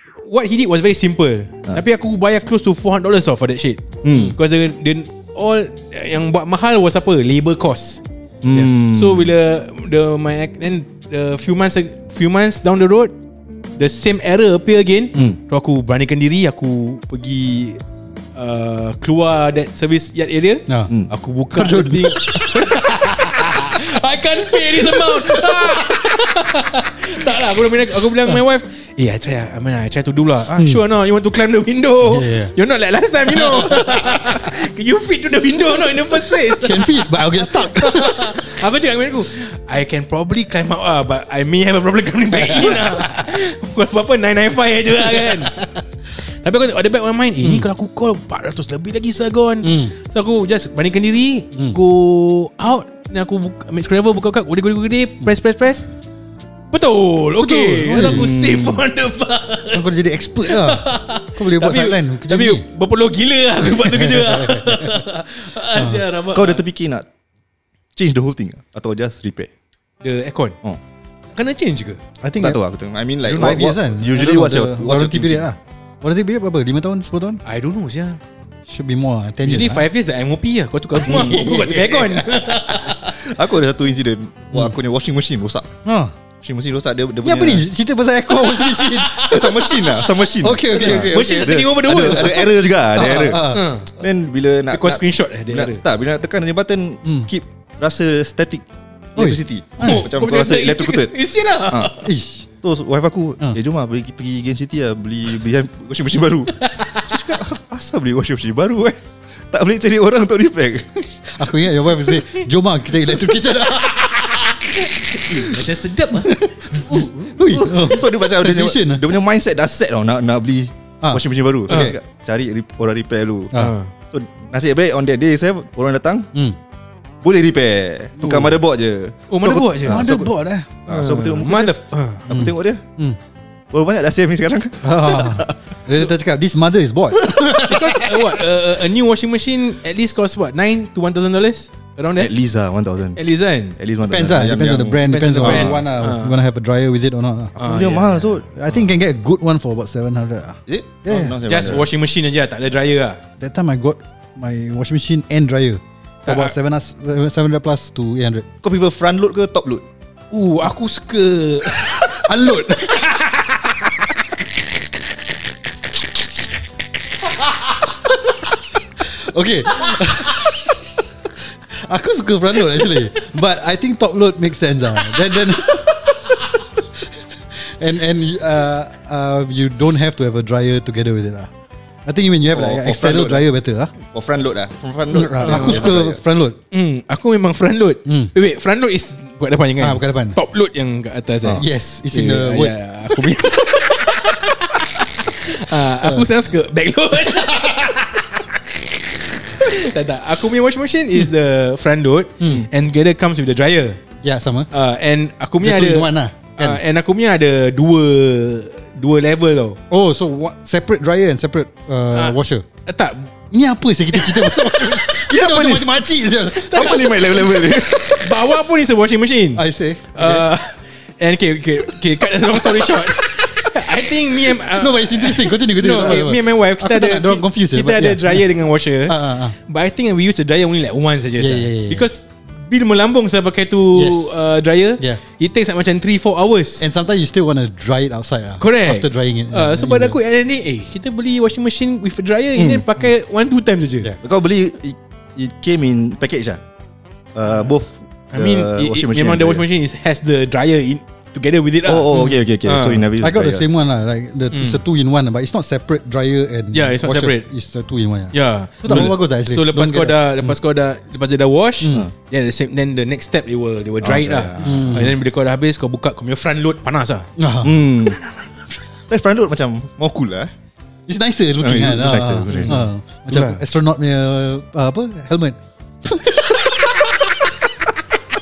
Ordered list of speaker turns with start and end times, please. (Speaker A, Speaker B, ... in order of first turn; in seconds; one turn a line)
Speaker A: 0.2-8.0
Speaker B: 4.0-4.4
Speaker B: 8.4-9.3
Speaker C: 8.5-8.8
Speaker A: 8.9-13.1
Speaker A: 13.8-17.8
Speaker A: 18.4-45.6
Speaker C: 21.5-22.8
Speaker C: 24.7-25.8
Speaker C: 30.5-30.8
Speaker C: 32.0-32.5
Speaker C: 33.3-34.4
Speaker C: 36.5-38.4
Speaker C: 42.3-43.3
Speaker C: 45.0-45.7
Speaker A: 46.2-55.9
Speaker C: 47.4-47.7
Speaker C: 49.6-49.9
Speaker A: 56.7-59.9
Speaker C: 57.4-58.3
Speaker B: 58.0-58.8
Speaker C: 59.7-62.6
Speaker A: 60.5-66.7
Speaker C: 63.7-65.1
Speaker C: 65.7-66.0
Speaker B: 66.3-67.1
Speaker B: 68.0-69.5
Speaker A: 70.0-70.6
Speaker A: 71.3-72.0
Speaker C: 72.2-72.6
Speaker B: 72.4-75.5
Speaker C: 73.3-77.4
Speaker A: 77.5-78.2
Speaker C: 78.7-79.9
Speaker A: 79.4-83.2
Speaker C: 81.0-82.2
Speaker B: 81.1-81.6
Speaker B: 82.8-85.7
Speaker C: 84.5-84.8
Speaker C: 85.8-86.1
Speaker B: 86.4-87.7
Speaker C: 87.2-89.7
Speaker A: 88.3-89.9
Speaker B: 89.2-101.2
Speaker C: 90.4-91.6
Speaker A: 90.7-92.5
Speaker C: 92.9-93.7
Speaker A: 93.4-93.9
Speaker A: 94.7-95.8
Speaker C: 97.0-97.3
Speaker C: 99.2-100.1
Speaker A: 99.8-102.1
Speaker C: 102.0-102.5
Speaker B: 102.6-109.0
Speaker A: 106.6-107.1
Speaker B: 109.5-111.1
Speaker C: 111.3-115.6
Speaker A: 114.2-114.5
Speaker A: 115.0-117.7
Speaker C: 116.2-119.1
Speaker B: 117.6-123.6
Speaker C: 121.0-122.0
Speaker A: 121.7-122.0
Speaker A: 123.5-123.9
Speaker B: 124.1-126.3
Speaker B: 127.2-130.3
Speaker C: 128.2-128.6
Speaker A: 129.3-130.1
Speaker C: 129.5-130.7
Speaker B: 130.9-131.7
Speaker A: 130.9-132.2
Speaker B: 132.3-132.8
Speaker C: 132.3-133.2
Speaker B: 133.7-135.6
Speaker C: 134.8-138.2
Speaker A: 137.6-142.3
Speaker B: 142.2-143.2
Speaker A: 143.2-143.8
Speaker B: 143.8-145.8
Speaker C: 144.0-147.6
Speaker A: 145.1-146.3
Speaker A: 147.6-148.3
Speaker B: 147.6-148.5
Speaker C: 148.5-151.4
Speaker B: 150.7-151.9
Speaker A: 151.4-153.2
Speaker C: 153.4-158.5
Speaker A: 156.3-156.5
Speaker B: 158.6-159.8
Speaker A: 160.3-162.1
Speaker C: 161.8-164.3
Speaker A: 162.9-163.5
Speaker C: 167.3-181.5
Speaker C: 182.1-183.9
Speaker B: 182.5-183.5
Speaker B: 184.1-186.2
Speaker C: 185.1-186.6
Speaker A: 185.4-185.9
Speaker A: 186.7-204.0
Speaker C: 188.1-188.3
Speaker C: 189.8-190.4
Speaker C: 191.6-193.8
Speaker C: 196.0-196.3
Speaker C: 202.4-202.7
Speaker C: 204.2-204.7
Speaker A: 204.7-209.8
Speaker C: 205.6-206.8
Speaker C: 209.9-212.7
Speaker A: 212.1-213.3
Speaker C: 213.5-218.1
Speaker A: 214.1-217.3
Speaker B: 216.7-218.3
Speaker A: 218.1-236.9
Speaker C: 219.6-220.5
Speaker C: 222.5-228.5
Speaker C: 229.1-229.6
Speaker C: 231.4-232.1
Speaker C: 233.9-234.4
Speaker C: 236.8-240.2
Speaker A: 238.6-244.1
Speaker B: 242.6-242.8
Speaker B: 244.2-246.6
Speaker B: 247.3-249.6
Speaker A: 248.3-253.1
Speaker B: 251.9-253.7
Speaker C: 252.1-252.4
Speaker C: 253.2-260.6
Speaker A: 254.5-254.8
Speaker A: 256.7-257.5
Speaker A: 258.3-267.3
Speaker C: 261.8-262.1
Speaker B: 264.0-265.0
Speaker C: 264.6-265.2
Speaker C: 267.4-268.1
Speaker B: 267.6-268.2
Speaker B: 269.1-270.5
Speaker C: 271.1-277.8
Speaker B: 271.6-272.9
Speaker A: 272.5-273.6